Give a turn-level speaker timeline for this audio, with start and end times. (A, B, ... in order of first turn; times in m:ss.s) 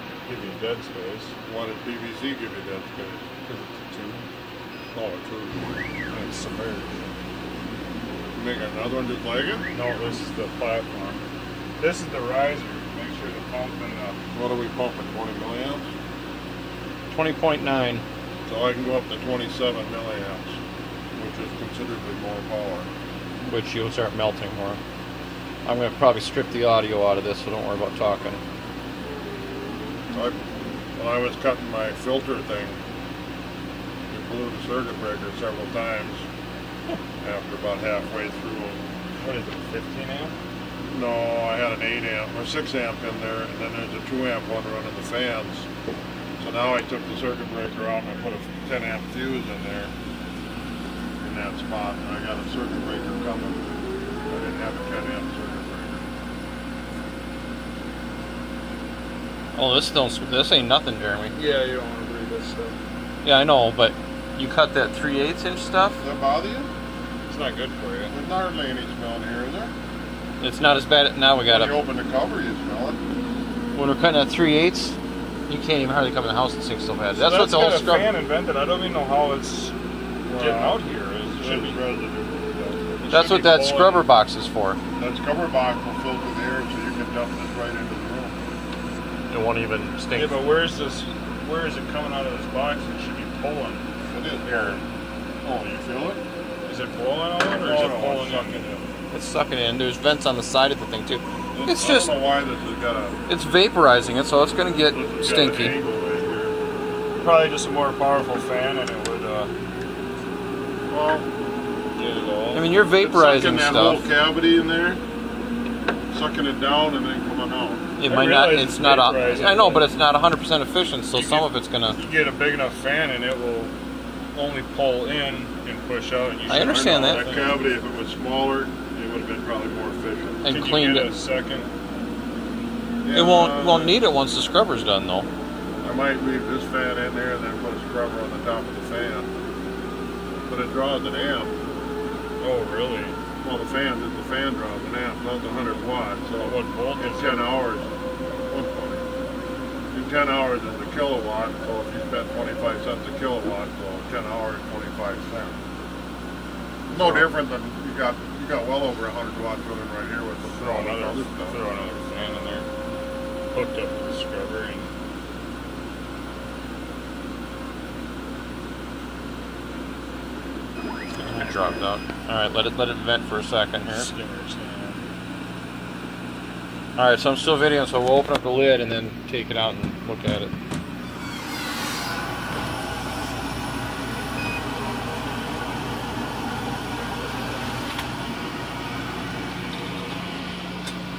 0:00.2-0:01.3 A
0:01.4-0:03.4 B
0:03.5-0:04.2 A
0:04.9-0:05.7 B
0:06.1-0:07.0 A
0:08.3-0:09.7 B
0:09.7-0:11.2 A
0:11.8-0:14.2 A
0:14.3-0:15.9 B
0:17.1-0:18.0 C
0:18.5-0:20.6 B
0:21.2-0:22.9 B
0:23.5-0:24.8 C
0:25.6-0:28.4 C
0:30.1-0:30.4 B
0:31.0-0:32.8 B
0:34.1-0:36.3 B
0:37.2-0:38.8 B
0:39.2-0:40.4 A
0:40.9-0:45.7 B
0:46.4-0:49.9 B
0:51.2-0:53.6 B
0:54.3-0:56.0 B
0:59.5-1:01.4 C
1:01.4-1:02.8 A
1:03.2-1:06.0 C
1:06.0-1:06.7 B
1:07.3-1:08.1 C
1:08.1-1:09.7 B
1:10.4-1:11.8 C
1:11.4-1:13.0 B
1:13.7-1:15.0 C
1:15.5-1:18.1 C
1:17.1-1:19.7 A
1:20.3-1:20.8 B
1:20.4-1:21.8 A
1:21.4-1:23.5 B
1:23.1-1:24.1 A
1:23.1-1:24.8 C
1:25.0-1:28.4 B
1:29.3-1:30.5 C
1:30.1-1:33.9 A
1:34.1-1:34.8 B
1:34.4-1:34.8 A
1:35.4-1:36.2 B
1:36.7-1:38.8 A
1:37.6-1:38.8 B
1:39.1-1:42.1 C
1:41.5-1:43.2 B
1:43.3-1:45.8 C
1:44.9-1:46.6 B
1:47.2-1:49.5 A
1:50.9-1:51.3 B
1:52.0-1:52.7 A
1:52.5-1:54.1 C
1:53.0-1:55.0 B
1:56.1-1:57.8 B
1:58.0-2:02.0 C
1:58.1-1:59.9 A
2:01.1-2:03.7 A
2:04.3-2:07.6 A
2:06.5-2:07.3 C
2:07.0-2:10.4 B
2:10.4-2:11.1 C
2:10.4-2:11.7 A
2:13.0-2:14.0 B
2:13.1-2:15.3 C
2:15.8-2:19.3 B
2:20.5-2:21.6 B
2:22.4-2:23.2 A
2:23.4-2:27.9 B
2:26.4-2:27.5 A
2:28.5-2:29.1 B
2:29.9-2:35.6 B
2:36.9-2:41.6 B
2:37.0-2:37.3 A
2:40.5-2:42.7 A
2:43.5-2:44.9 A
2:51.2-2:54.1 C
2:53.8-2:55.0 A
2:57.0-3:00.5 C